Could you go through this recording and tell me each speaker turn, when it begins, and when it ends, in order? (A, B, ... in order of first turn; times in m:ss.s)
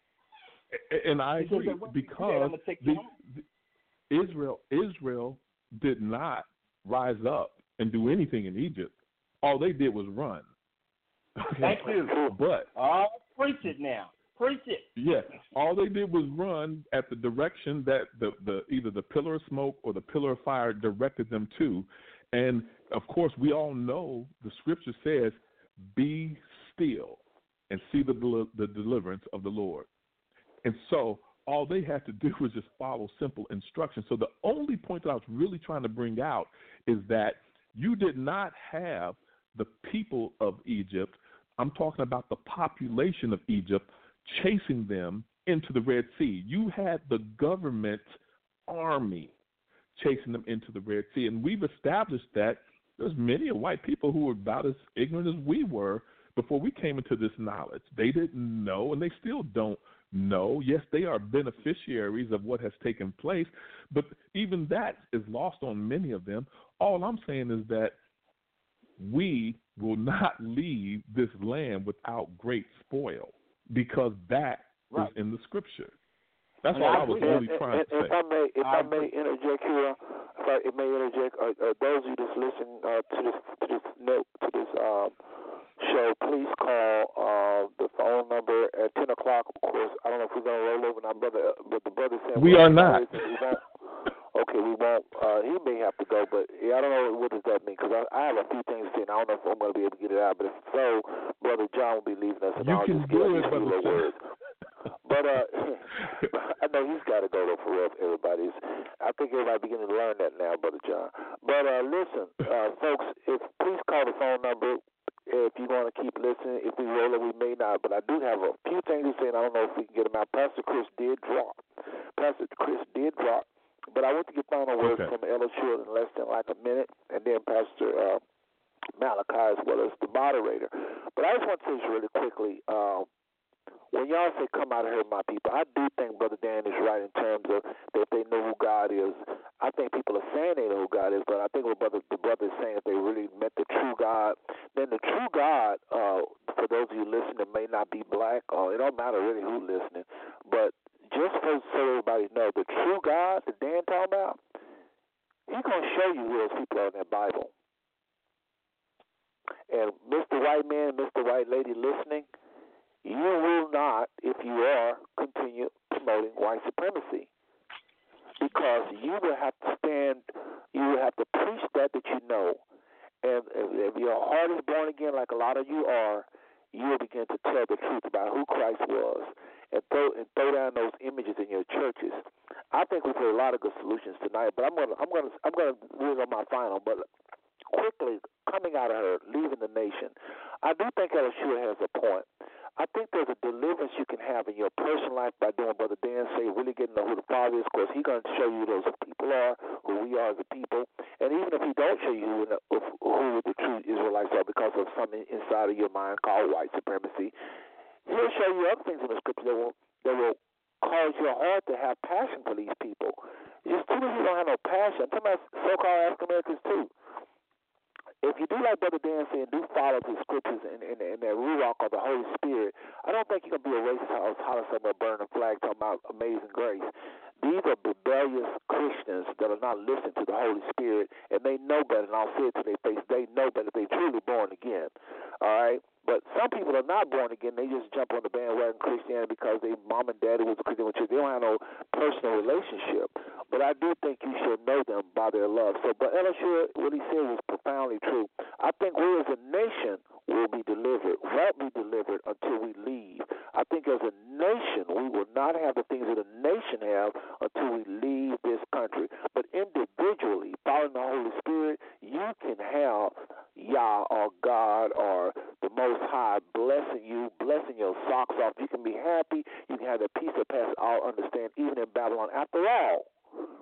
0:00.7-0:03.4 A
0:01.4-0:03.1 B
0:04.1-0:10.5 A
0:11.4-0:12.7 A
0:11.6-0:12.2 B
0:12.8-0:14.9 B
0:15.0-0:25.4 A
0:25.9-0:29.9 A
0:30.6-0:48.1 A
0:48.7-0:49.4 A
0:50.0-1:08.0 A
1:09.0-1:16.0 A
1:16.6-1:18.2 A
1:16.7-1:17.4 B
1:16.9-1:25.2 C
1:18.6-1:19.1 B
1:25.8-1:33.7 C
1:32.4-1:33.1 A
1:34.3-1:44.2 C
1:42.6-1:44.1 A
1:45.0-2:01.6 C
2:02.2-2:08.2 C
2:04.8-2:05.1 A
2:09.0-2:13.1 C
2:13.9-2:34.4 C
2:35.5-2:37.5 C
2:39.7-2:42.3 C
2:43.0-2:47.3 C
2:48.4-2:52.6 C
2:53.2-3:07.1 C
3:07.7-3:12.3 C
3:12.8-3:27.3 C
3:28.1-3:36.9 C
3:38.2-3:46.9 C
3:47.4-4:33.1 C